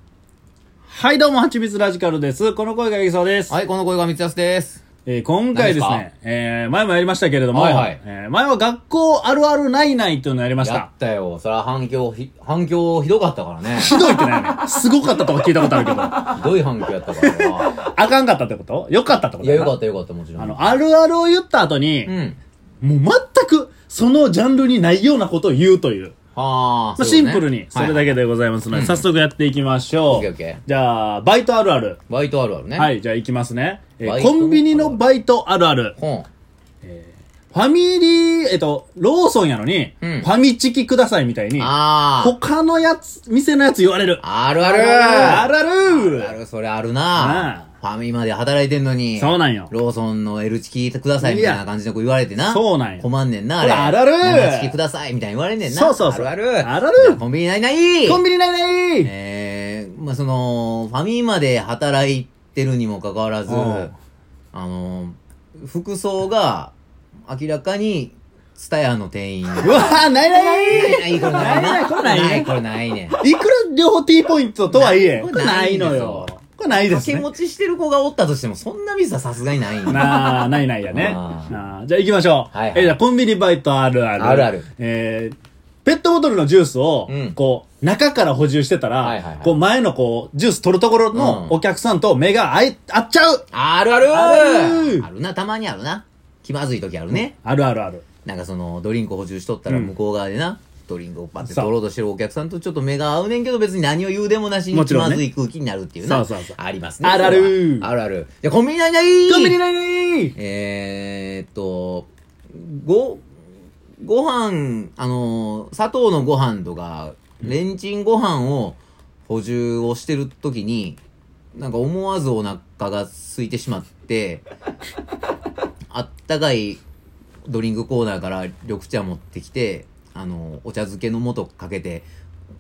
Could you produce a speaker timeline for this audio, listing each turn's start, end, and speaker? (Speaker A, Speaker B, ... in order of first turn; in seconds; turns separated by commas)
Speaker A: 0.9-3.5, Speaker B: 3.5-4.8, Speaker A: 5.0-10.9, Speaker B: 5.5-6.0, Speaker B: 7.5-8.0, Speaker B: 10.6-14.0, Speaker A: 13.8-16.5, Speaker B: 16.2-17.9, Speaker A: 17.2-19.8, Speaker B: 19.4-20.8, Speaker A: 20.4-22.1, Speaker B: 22.1-22.4, Speaker A: 22.8-26.1, Speaker B: 26.3-28.1, Speaker A: 27.0-32.0, Speaker B: 28.7-29.0, Speaker B: 30.1-30.6, Speaker B: 32.1-32.9, Speaker A: 32.8-35.9, Speaker B: 34.0-35.0, Speaker B: 36.0-36.3, Speaker A: 36.8-46.4, Speaker B: 40.0-40.3, Speaker B: 41.6-42.4, Speaker B: 44.2-58.2, Speaker A: 47.2-47.6, Speaker A: 49.2-49.7, Speaker A: 51.2-51.6, Speaker A: 52.5-53.0, Speaker A: 53.6-54.8, Speaker A: 55.6-57.2, Speaker A: 58.0-59.1, Speaker B: 59.0-63.9, Speaker A: 63.5-63.9, Speaker B: 64.5-66.7, Speaker B: 67.3-70.1, Speaker A: 69.6-72.5, Speaker B: 70.7-73.2, Speaker A: 73.2-77.3, Speaker B: 74.7-81.6, Speaker A: 79.8-93.4, Speaker B: 82.5-83.0, Speaker B: 84.2-84.7, Speaker B: 87.1-87.4, Speaker B: 89.0-89.6, Speaker B: 91.1-91.6, Speaker B: 93.5-97.3, Speaker A: 94.1-95.0, Speaker A: 97.1-98.0, Speaker B: 98.2-109.6, Speaker A: 104.7-105.2, Speaker A: 106.0-107.9, Speaker A: 109.3-110.3, Speaker B: 110.3-113.2, Speaker B: 114.0-121.0, Speaker B: 121.5-124.5, Speaker B: 125.9-126.8, Speaker B: 127.5-132.1